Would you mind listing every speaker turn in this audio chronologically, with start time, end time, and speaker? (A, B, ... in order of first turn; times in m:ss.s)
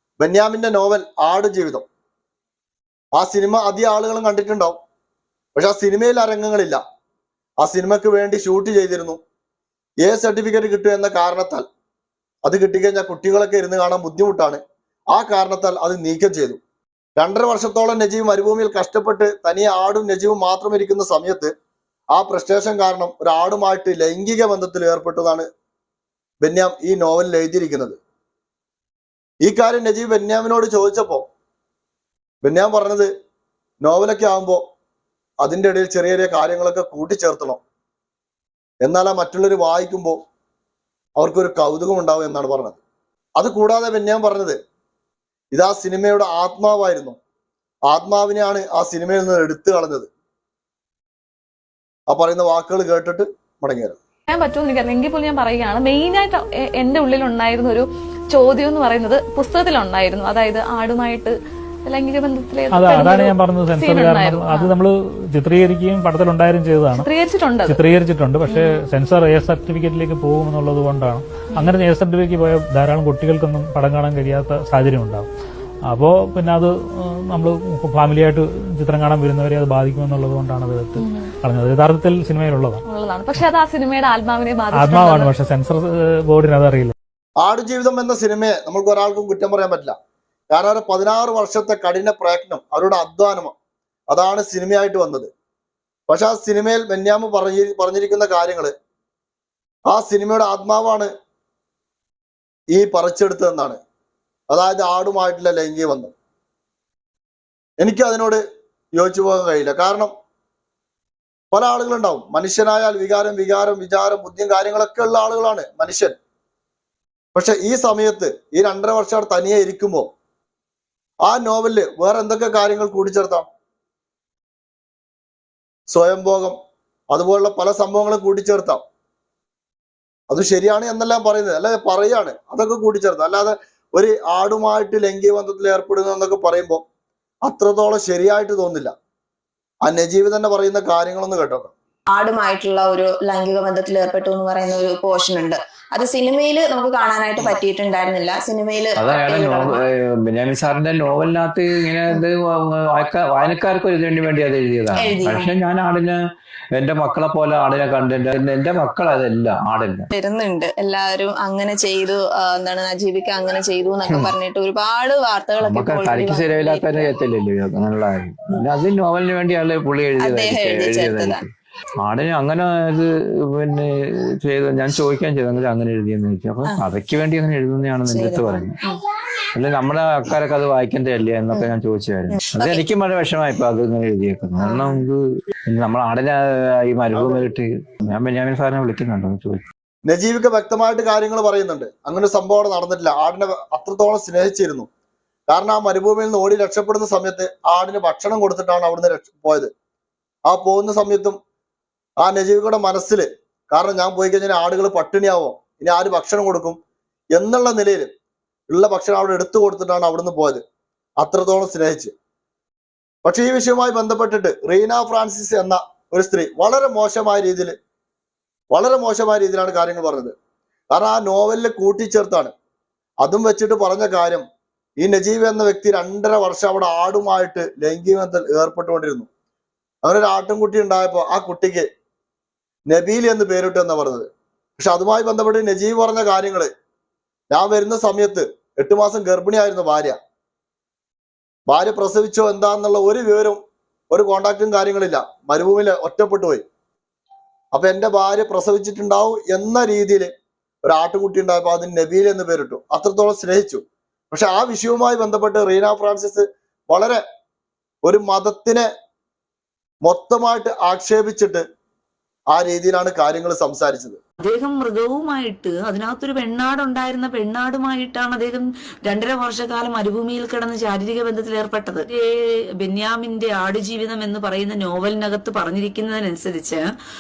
0:00.2-0:01.9 A
0:03.2-0:04.8 A
0:05.6-0:06.8 A
0:07.6-0:09.2 A
0:10.0-0:11.7 A
0:12.4-0:14.6 A
0:15.1-0:16.6 A
0:17.2-0:21.5 A
0:22.1-0:25.5 A
0:26.4-0:28.0 A
0:29.4-0:31.2 A
0:32.4-0:33.1 A
0:33.8-0:34.6 A
0:35.4-0:37.6 A
0:38.8-0:40.2 A
0:41.2-0:42.8 A
0:43.4-0:44.6 A
0:45.5-0:47.2 A
0:47.9-0:50.1 A
0:52.1-0:54.0 A
0:54.3-1:04.7 B
1:02.7-1:07.1 C
1:06.9-1:07.8 B
1:07.7-1:15.3 C
1:08.5-1:08.8 B
1:11.5-1:11.8 B
1:15.9-1:22.8 C
1:21.0-1:21.3 B
1:22.9-1:25.3 B
1:24.7-1:26.9 C
1:27.4-1:30.0 A
1:30.5-1:33.6 A
1:34.1-1:35.3 A
1:36.1-1:38.8 A
1:39.9-1:41.1 A
1:42.7-1:43.8 A
1:44.5-1:46.1 A
1:47.8-1:48.4 A
1:49.0-1:50.1 A
1:51.5-1:56.2 A
1:57.3-2:00.1 A
2:01.2-2:03.5 A
2:05.9-2:06.6 A
2:07.1-2:08.8 A
2:10.3-2:16.8 A
2:17.4-2:18.9 A
2:19.8-2:21.7 A
2:22.1-2:29.8 D
2:29.0-2:36.2 E
2:35.0-2:35.5 D
2:36.8-2:40.1 E
2:40.1-2:47.1 D
2:44.1-2:44.3 E
2:45.6-2:51.5 E
2:50.2-2:51.4 D
2:52.0-2:53.9 E
2:54.4-2:58.8 E
2:58.1-2:59.0 D
2:59.6-3:09.7 E
3:02.3-3:02.8 D
3:04.6-3:05.0 D
3:10.1-3:14.9 A
3:15.5-3:19.7 A
3:20.5-3:21.4 A
3:22.2-3:26.8 A
3:27.4-3:28.1 A
3:28.7-3:30.6 A
3:31.2-3:32.1 A
3:33.2-3:37.8 A
3:38.7-3:40.4 A
3:40.9-3:42.5 A
3:43.2-3:44.4 A
3:45.0-3:49.3 A
3:50.0-3:51.9 A
3:52.9-3:56.7 A
3:57.5-4:00.2 A
4:01.7-4:03.6 A
4:04.1-4:06.6 A
4:07.7-4:10.3 A
4:10.8-4:17.2 A
4:18.0-4:18.9 A
4:20.0-4:21.6 A
4:22.5-4:24.2 A
4:24.4-4:32.2 F
4:32.8-4:36.8 F